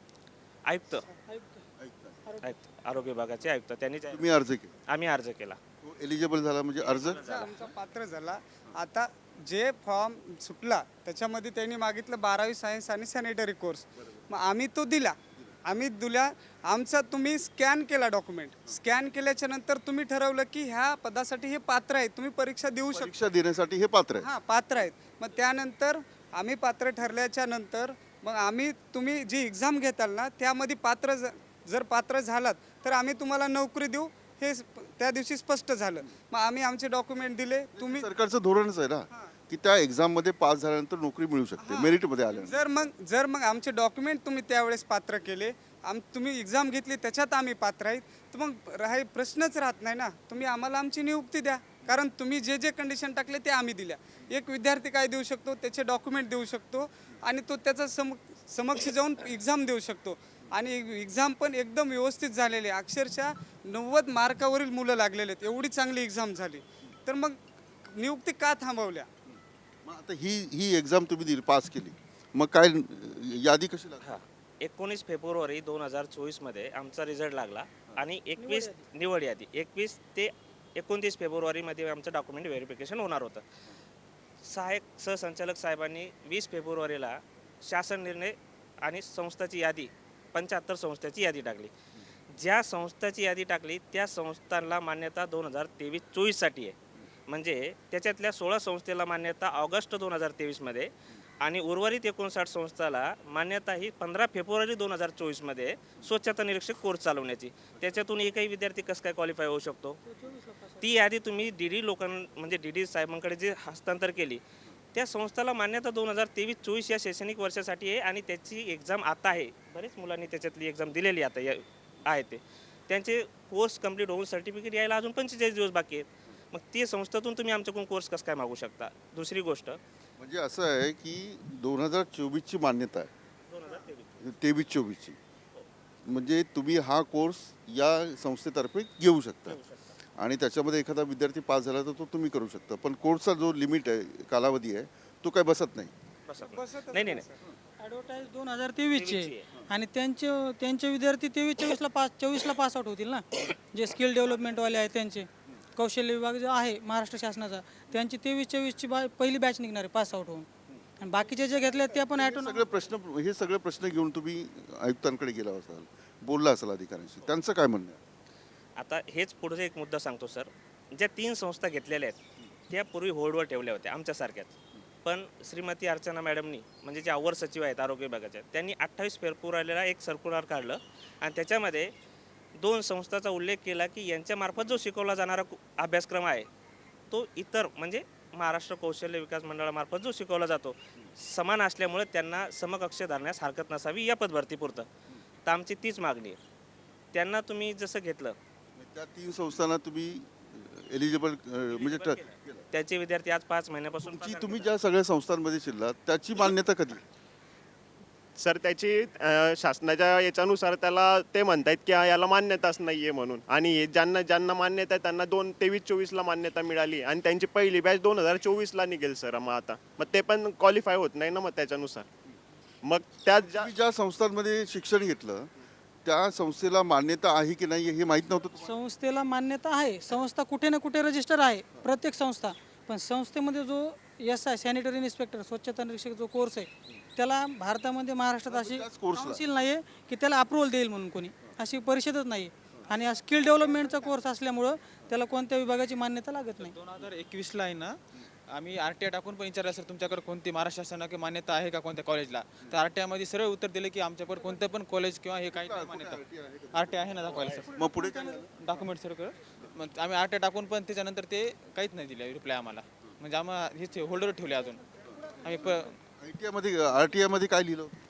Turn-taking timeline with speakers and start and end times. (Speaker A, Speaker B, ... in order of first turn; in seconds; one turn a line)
Speaker A: 0.7-1.1
Speaker B: 1.3-1.6
Speaker C: 1.8-2.2
Speaker B: 2.3-2.6
Speaker A: 2.4-4.3
Speaker C: 4.1-4.8
Speaker A: 4.9-5.6
Speaker C: 5.8-7.2
Speaker A: 6.8-7.7
Speaker D: 7.1-23.1
Speaker C: 22.9-24.3
Speaker D: 24.2-38.1
Speaker C: 37.8-42.6
Speaker D: 41.6-69.1
Speaker C: 69.3-74.2
Speaker A: 74.0-83.5
Speaker B: 78.4-78.8
Speaker A: 84.4-91.7
Speaker A: 92.3-96.8
Speaker A: 97.3-100.9
Speaker A: 101.4-110.0
Speaker B: 110.0-111.0
Speaker A: 110.8-114.4
Speaker A: 114.9-129.8
Speaker C: 130.2-133.1
Speaker A: 133.5-134.3
Speaker C: 134.2-135.2
Speaker C: 136.1-139.6
Speaker A: 139.5-139.9
Speaker C: 140.2-145.9
Speaker A: 146.3-147.3
Speaker D: 146.4-147.4
Speaker B: 147.8-160.5
Speaker A: 148.9-149.5
Speaker B: 161.0-162.7
Speaker C: 162.1-168.0
Speaker A: 168.8-172.2
Speaker A: 172.7-181.9
Speaker A: 182.6-186.5
Speaker A: 187.1-194.9
Speaker A: 195.4-196.4
Speaker A: 197.1-198.4
Speaker C: 198.8-202.7
Speaker A: 201.7-204.7
Speaker C: 204.0-207.0
Speaker E: 208.4-222.1
Speaker E: 222.8-223.7
Speaker C: 223.5-225.5
Speaker C: 226.1-228.8
Speaker B: 228.6-246.8
Speaker C: 238.5-239.4
Speaker D: 243.4-244.0
Speaker F: 246.6-248.0
Speaker F: 248.5-256.2
Speaker C: 255.5-258.5
Speaker F: 256.7-264.8
Speaker F: 265.4-265.9
Speaker C: 266.2-268.0